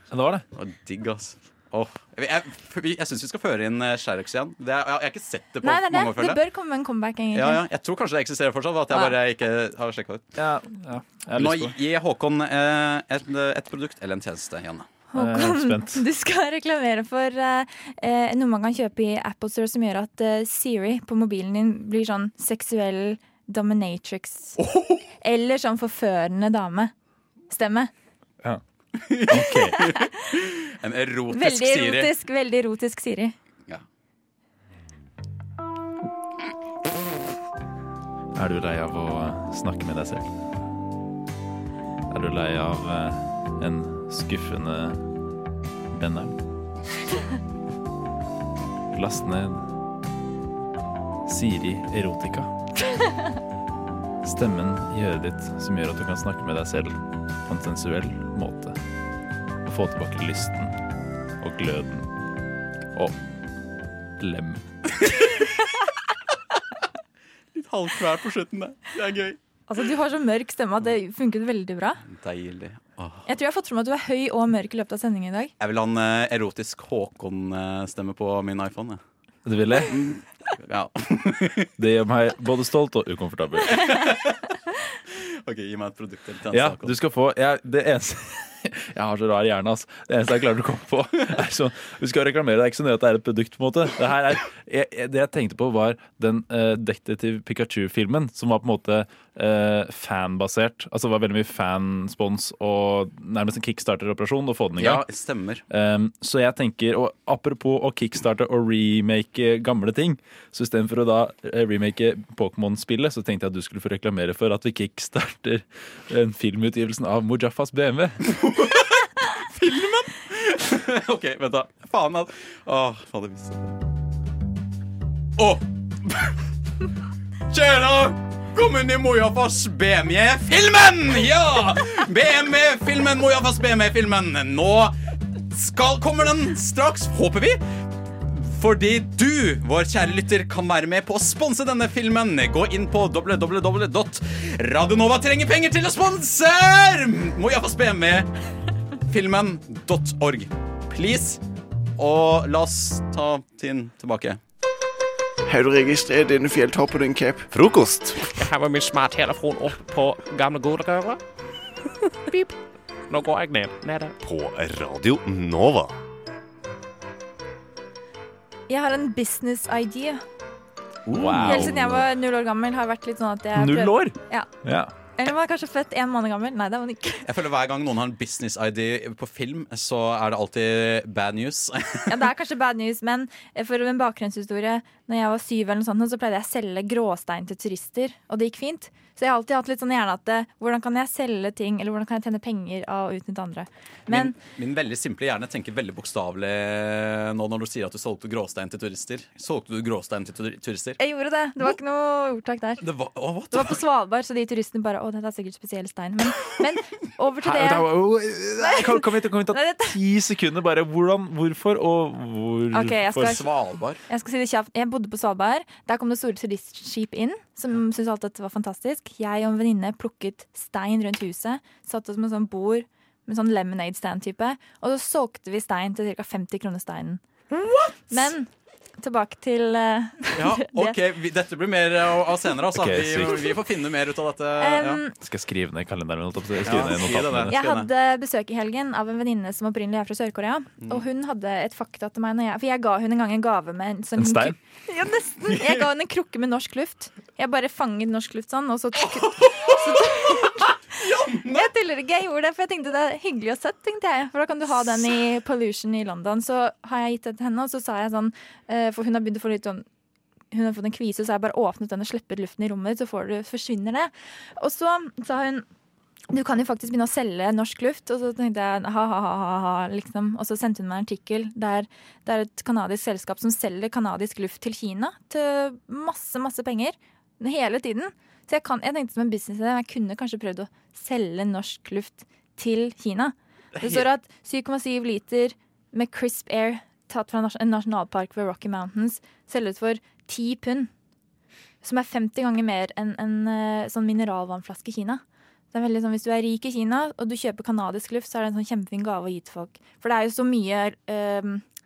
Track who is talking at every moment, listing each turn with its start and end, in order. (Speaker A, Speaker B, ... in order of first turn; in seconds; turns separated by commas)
Speaker A: 0.1-0.4, Speaker B: 0.5-6.4, Speaker C: 5.6-7.6, Speaker B: 7.3-10.3, Speaker A: 10.4-11.8, Speaker B: 11.4-14.9, Speaker C: 15.1-24.6, Speaker A: 15.2-16.0, Speaker C: 25.2-26.9, Speaker C: 27.5-27.9, Speaker B: 29.0-32.1, Speaker A: 29.3-29.8, Speaker C: 31.3-33.3, Speaker A: 38.3-40.3, Speaker A: 42.1-45.0, Speaker A: 45.9-46.4, Speaker A: 48.9-49.6, Speaker A: 51.2-52.5, Speaker A: 54.2-58.8, Speaker A: 59.6-60.7, Speaker A: 61.4-62.1, Speaker A: 64.2-64.6, Speaker B: 67.5-69.4, Speaker C: 69.7-72.0, Speaker B: 72.0-73.2, Speaker C: 73.3-75.5, Speaker B: 75.6-79.0, Speaker A: 79.4-80.0, Speaker B: 79.9-81.7, Speaker A: 81.8-83.9, Speaker B: 83.7-84.5, Speaker B: 85.2-86.9, Speaker A: 86.5-105.0, Speaker B: 104.8-105.6, Speaker A: 105.7-118.2, Speaker B: 118.3-123.7, Speaker B: 125.4-126.3, Speaker B: 127.5-134.9, Speaker B: 135.5-137.6, Speaker B: 138.2-148.3, Speaker B: 149.1-151.4, Speaker B: 152.0-154.4, Speaker D: 155.4-157.5, Speaker E: 157.5-158.3, Speaker F: 158.2-161.2, Speaker F: 163.1-164.1, Speaker E: 164.2-165.9, Speaker C: 168.7-170.2, Speaker A: 171.1-172.0, Speaker C: 171.2-174.5, Speaker A: 173.5-174.9, Speaker C: 175.2-177.2, Speaker B: 177.2-182.1, Speaker C: 182.1-194.3, Speaker B: 194.1-201.0, Speaker C: 201.0-202.8, Speaker B: 202.8-203.8, Speaker C: 203.5-207.9, Speaker A: 207.4-213.4, Speaker C: 208.6-210.0, Speaker C: 212.7-213.5, Speaker B: 213.2-214.0, Speaker C: 214.1-227.2, Speaker C: 228.1-228.5, Speaker C: 229.0-230.9, Speaker B: 230.3-235.0, Speaker A: 232.7-233.6, Speaker C: 234.6-235.1, Speaker A: 235.1-237.6, Speaker B: 236.6-237.9, Speaker C: 237.5-250.7, Speaker A: 244.2-244.6, Speaker B: 245.5-245.8, Speaker B: 249.0-251.7, Speaker C: 251.3-259.8, Speaker C: 260.5-265.6, Speaker C: 266.3-290.9, Speaker B: 283.8-284.1, Speaker C: 291.8-295.2, Speaker C: 295.7-301.6